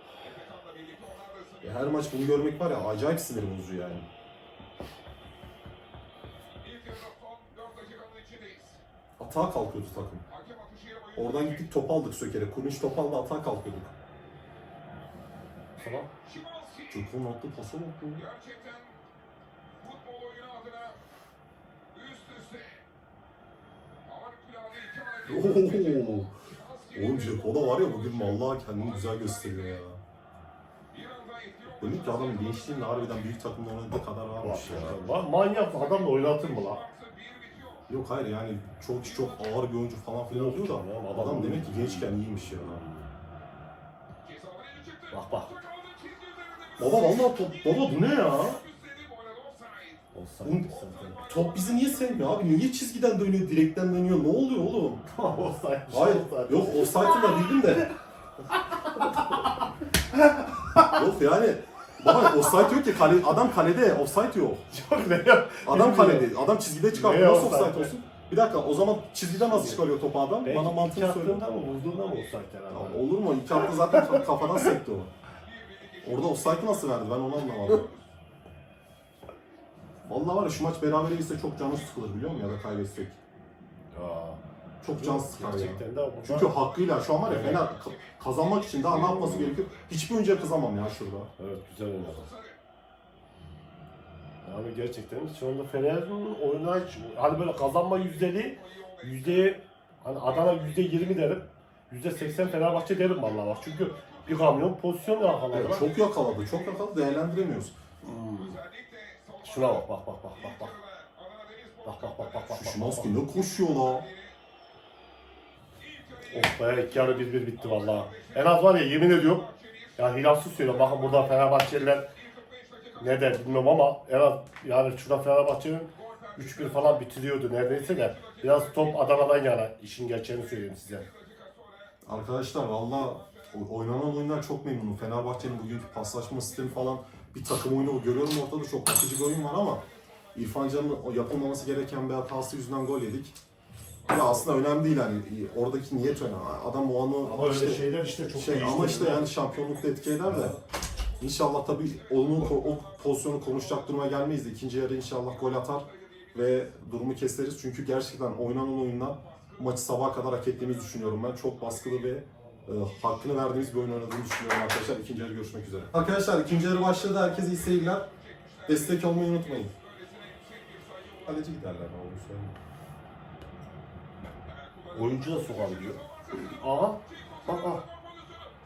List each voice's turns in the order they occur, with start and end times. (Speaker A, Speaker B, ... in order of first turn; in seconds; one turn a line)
Speaker A: 0.5-1.4
Speaker B: 1.6-4.1
Speaker A: 6.9-8.7
Speaker B: 9.2-10.2
Speaker B: 11.1-13.9
Speaker C: 15.8-16.1
Speaker B: 16.9-18.3
Speaker A: 20.1-20.9
Speaker A: 22.1-22.6
Speaker A: 24.6-25.0
Speaker B: 25.2-26.3
Speaker B: 26.9-30.0
Speaker B: 31.7-35.0
Speaker C: 34.4-36.9
Speaker B: 37.9-42.8
Speaker C: 40.3-43.1
Speaker C: 45.1-45.6
Speaker B: 46.8-48.6
Speaker C: 50.1-51.2
Speaker B: 50.4-55.0
Speaker C: 55.0-57.8
Speaker B: 55.9-57.9
Speaker C: 58.5-61.0
Speaker B: 60.9-64.7
Speaker C: 62.0-62.8
Speaker C: 64.7-66.3
Speaker B: 65.6-71.4
Speaker C: 66.9-67.9
Speaker C: 69.4-69.8
Speaker C: 70.4-74.3
Speaker B: 72.7-75.1
Speaker B: 76.0-77.9
Speaker B: 80.1-83.2
Speaker C: 83.9-84.4
Speaker B: 84.8-91.3
Speaker C: 84.9-86.5
Speaker C: 87.2-87.6
Speaker C: 88.9-89.5
Speaker C: 91.4-92.3
Speaker C: 94.4-105.8
Speaker B: 105.5-107.8
Speaker C: 108.0-108.6
Speaker C: 109.4-110.8
Speaker C: 111.8-113.2
Speaker B: 112.5-114.1
Speaker C: 116.3-122.0
Speaker C: 123.0-131.1
Speaker B: 132.1-139.8
Speaker B: 140.3-143.4
Speaker B: 144.1-150.6
Speaker C: 147.2-149.3
Speaker C: 150.2-150.5
Speaker B: 151.2-168.1
Speaker B: 168.6-169.7
Speaker B: 171.2-172.6
Speaker C: 174.9-177.8